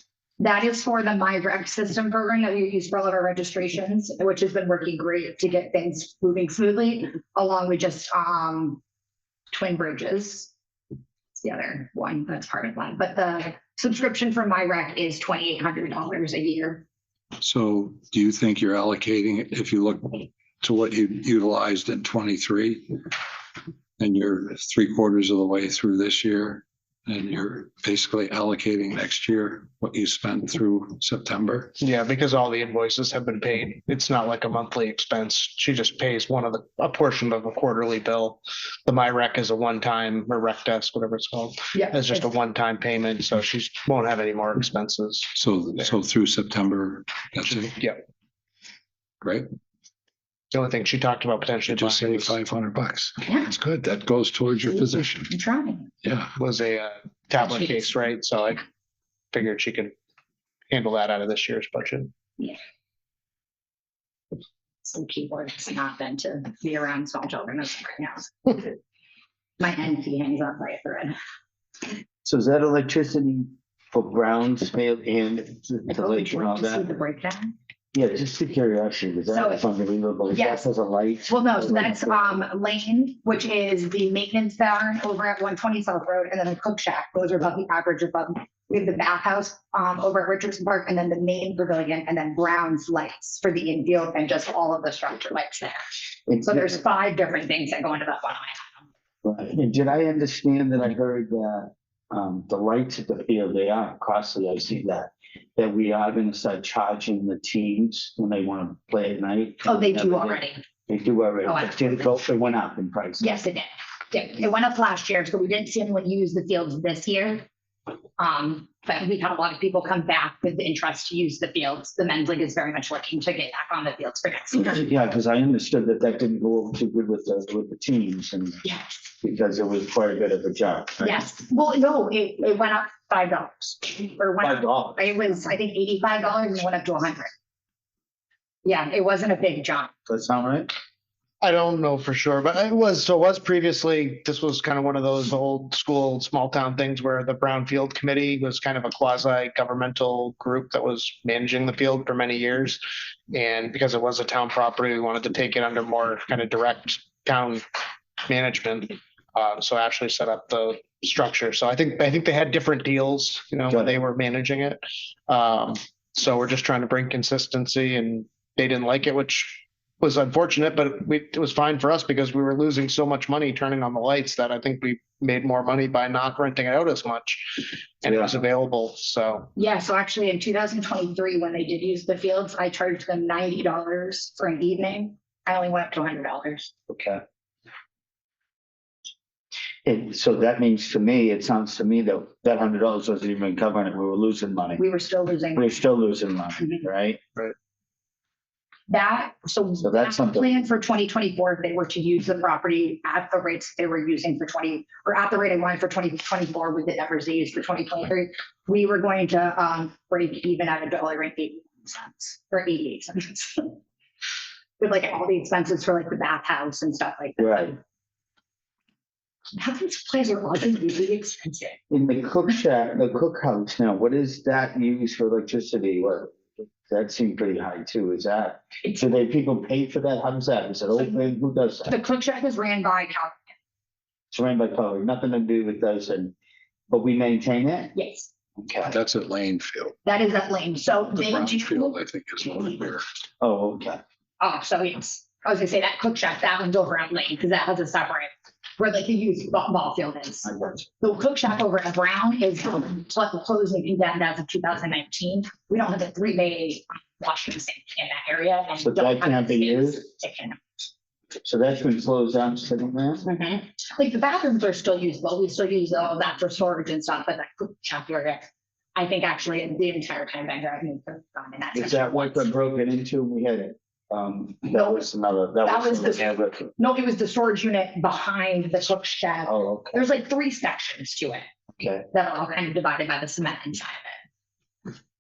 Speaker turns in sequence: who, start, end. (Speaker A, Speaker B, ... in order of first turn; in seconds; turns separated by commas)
Speaker A: 0.4-8.8, Speaker A: 9.5-10.5, Speaker A: 11.4-16.9, Speaker B: 17.4-22.9, Speaker B: 24.0-31.7, Speaker C: 31.8-45.3, Speaker A: 41.7-42.3, Speaker B: 45.4-47.8, Speaker C: 47.8-48.0, Speaker C: 50.5-52.4, Speaker B: 51.7-55.3, Speaker A: 53.2-53.5, Speaker A: 55.3-55.9, Speaker B: 56.0-56.3, Speaker C: 56.4-58.6, Speaker A: 57.4-57.9, Speaker C: 59.3-59.9, Speaker C: 60.7-62.1, Speaker A: 64.8-68.7, Speaker A: 69.6-71.2, Speaker D: 72.2-76.9, Speaker A: 75.9-77.5, Speaker D: 77.9-82.2, Speaker A: 79.3-79.7, Speaker A: 80.3-80.7, Speaker A: 81.3-98.8, Speaker D: 96.3-96.8, Speaker D: 99.2-113.3, Speaker A: 109.7-110.6, Speaker A: 111.5-112.0, Speaker A: 113.2-117.5, Speaker A: 118.2-124.8, Speaker D: 124.5-128.6, Speaker D: 129.2-131.2, Speaker A: 131.0-137.3, Speaker D: 134.4-135.0, Speaker A: 138.6-139.9, Speaker D: 140.1-140.7, Speaker C: 141.4-152.8, Speaker C: 153.3-157.6, Speaker C: 158.3-179.5, Speaker A: 179.6-186.7, Speaker D: 186.9-187.2, Speaker D: 189.8-194.8, Speaker A: 194.8-195.8, Speaker D: 195.6-197.2, Speaker A: 198.9-213.8, Speaker D: 199.8-200.5, Speaker A: 214.8-217.8, Speaker D: 217.4-217.7, Speaker A: 219.5-221.8, Speaker D: 221.9-231.9, Speaker A: 231.9-233.4, Speaker D: 234.3-236.3, Speaker D: 236.9-237.9, Speaker A: 237.9-238.3, Speaker D: 238.6-239.0, Speaker B: 238.8-239.9, Speaker A: 240.1-242.0, Speaker B: 241.2-243.0, Speaker D: 243.4-244.0, Speaker A: 244.4-260.6, Speaker D: 258.8-260.1, Speaker D: 261.4-263.2, Speaker A: 263.2-268.4, Speaker A: 268.9-272.5, Speaker D: 271.7-276.7, Speaker A: 274.7-275.1, Speaker A: 275.6-281.5, Speaker D: 279.4-280.0, Speaker D: 281.8-282.1, Speaker A: 282.1-284.2